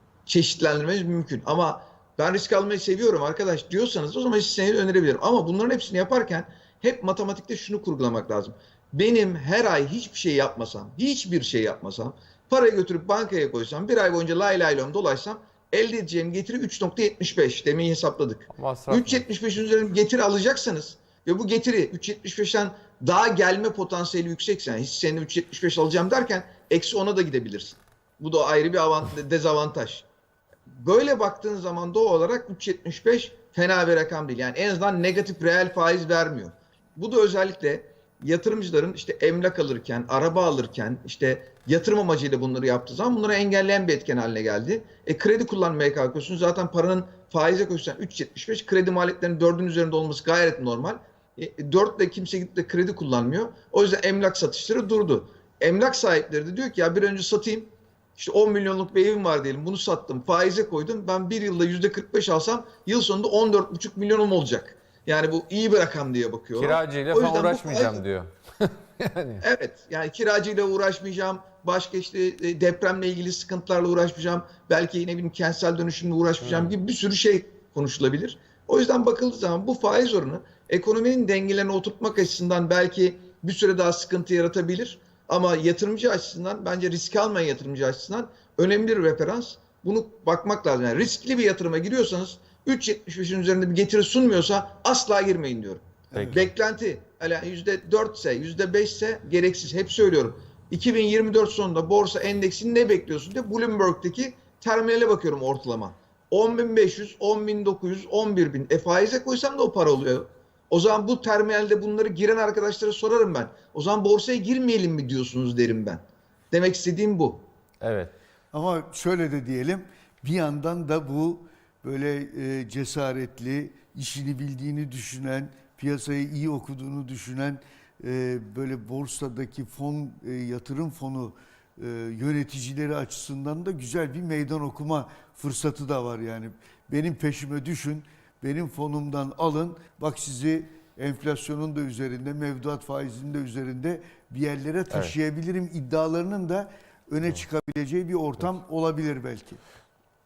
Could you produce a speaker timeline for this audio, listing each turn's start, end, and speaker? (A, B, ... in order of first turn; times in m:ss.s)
0:00.2-0:30.0 A
0:18.5-0:19.2 B
0:30.7-1:08.0 A
1:06.5-1:09.4 B
1:09.4-1:57.4 A
1:16.4-1:16.7 B
1:36.1-1:36.5 C
1:57.8-1:58.1 B
1:58.5-2:29.6 C